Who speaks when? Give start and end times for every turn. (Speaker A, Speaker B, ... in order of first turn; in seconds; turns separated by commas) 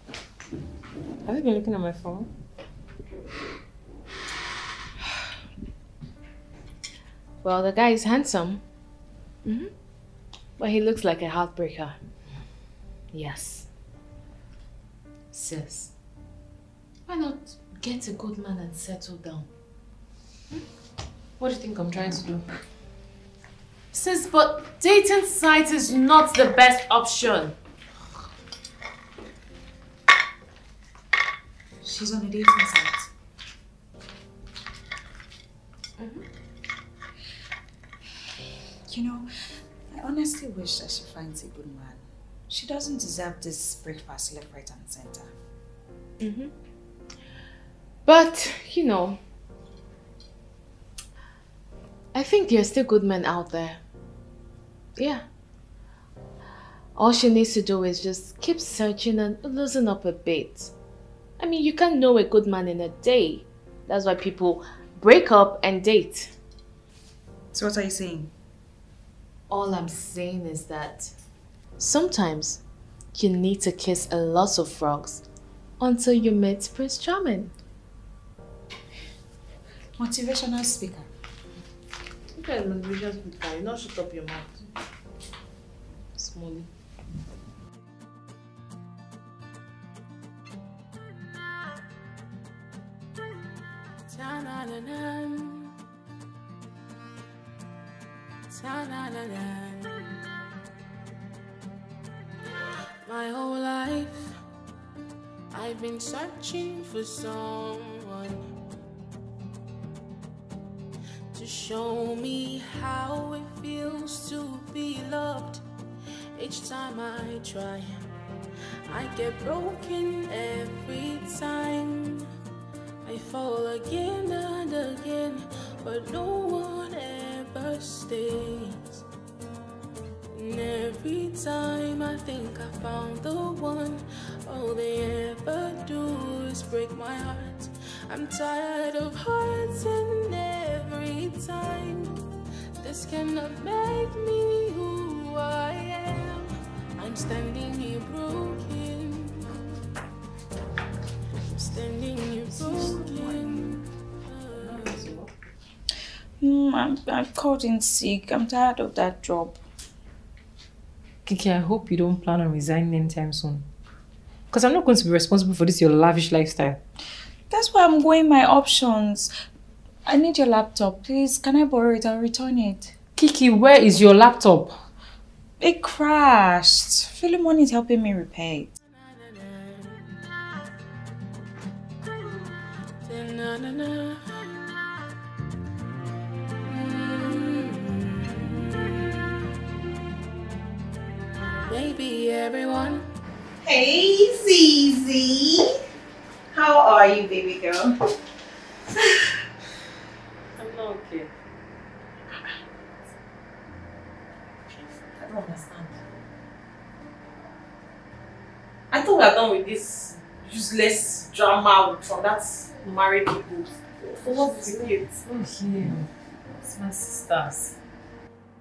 Speaker A: 1.2-2.3, Speaker B: 7.4-8.6, Speaker B: 9.4-9.7, Speaker B: 10.6-11.9, Speaker B: 13.1-13.7, Speaker B: 15.3-15.9, Speaker B: 17.1-19.5, Speaker B: 21.4-22.4, Speaker B: 23.9-27.5, Speaker C: 31.8-33.1, Speaker B: 36.0-36.2, Speaker C: 38.9-45.3, Speaker B: 46.2-46.5, Speaker B: 48.0-49.2, Speaker B: 52.1-53.8, Speaker B: 55.0-55.2, Speaker B: 57.0-60.7, Speaker B: 61.4-66.3, Speaker C: 67.5-68.3, Speaker B: 69.5-71.1, Speaker B: 71.8-72.6, Speaker B: 73.1-75.2, Speaker B: 75.8-77.5, Speaker C: 80.0-81.1, Speaker B: 82.4-84.5, Speaker B: 86.2-86.7, Speaker D: 94.1-95.7, Speaker D: 98.5-100.0, Speaker D: 103.0-104.4, Speaker D: 105.5-108.5, Speaker D: 111.3-115.6, Speaker D: 116.3-117.9, Speaker D: 118.9-122.3, Speaker D: 123.0-129.0, Speaker D: 130.3-142.2, Speaker D: 142.8-149.7, Speaker D: 151.4-155.0, Speaker A: 152.6-153.6, Speaker A: 154.6-155.3, Speaker C: 156.4-159.6, Speaker A: 161.2-163.7, Speaker A: 164.5-166.8, Speaker C: 167.5-169.3, Speaker C: 170.1-172.9, Speaker A: 173.2-174.8, Speaker C: 175.6-178.7, Speaker D: 178.9-180.1, Speaker D: 183.0-184.4, Speaker D: 186.6-188.6, Speaker D: 191.7-193.0, Speaker C: 193.6-195.8, Speaker C: 196.5-197.9, Speaker A: 200.6-201.3, Speaker E: 205.2-206.0, Speaker E: 208.9-215.0, Speaker A: 215.3-216.1, Speaker A: 216.6-217.8